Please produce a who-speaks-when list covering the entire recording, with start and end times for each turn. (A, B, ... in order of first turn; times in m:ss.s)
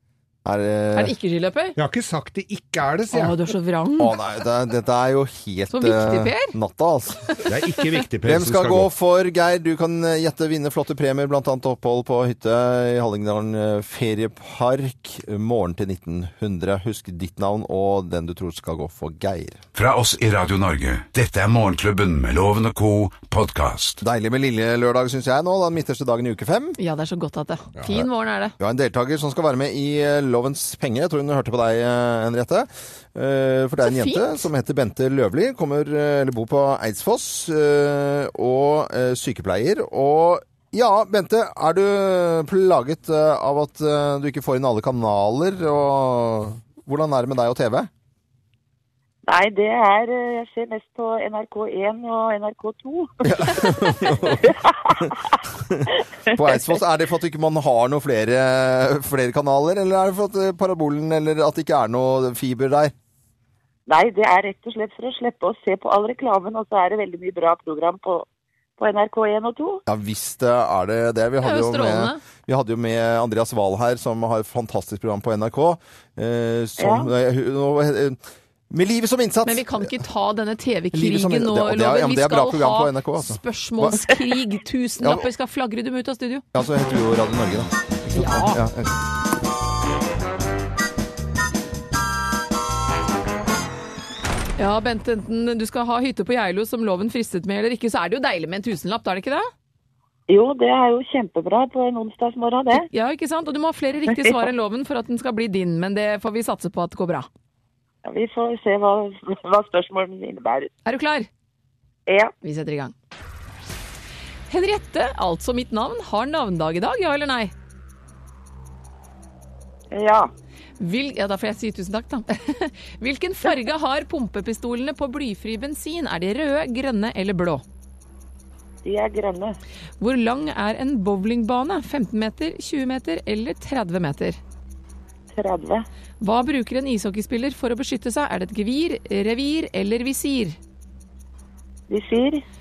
0:00.4-0:01.1 A
0:01.0-0:01.8 B
0:01.8-0:03.4 C
0:03.1-0:04.2 B
0:04.0-0:07.5 A
0:05.7-0:06.5 B
0:07.5-0:08.9 C
0:08.2-0:19.6 A
0:19.8-0:24.0 D
0:24.0-0:26.8 A
0:26.8-0:28.5 B
0:28.6-0:47.9 A
0:33.8-0:34.4 B
0:49.3-0:55.3 E
0:53.2-1:02.9 A
0:56.3-0:56.6 E
1:03.9-1:08.2 E
1:08.8-1:09.8 E
1:09.9-1:18.2 A
1:11.4-1:12.2 B
1:16.8-1:17.1 E
1:18.7-1:19.9 A
1:19.4-1:26.4 B
1:20.9-1:24.0 A
1:25.0-1:25.3 A
1:26.5-1:29.0 A
1:28.1-1:28.6 B
1:34.6-1:39.5 B
1:40.3-1:42.9 E
1:42.8-1:47.3 B
1:48.0-1:50.7 E
1:50.8-1:51.3 B
1:52.1-1:52.3 E
1:52.4-1:52.9 B
1:54.5-1:57.5 B
1:59.9-2:00.3 E
2:00.8-2:07.6 B
2:08.8-2:09.6 E
2:10.0-2:14.4 B
2:15.3-2:15.8 E
2:16.2-2:20.6 B
2:21.9-2:22.4 E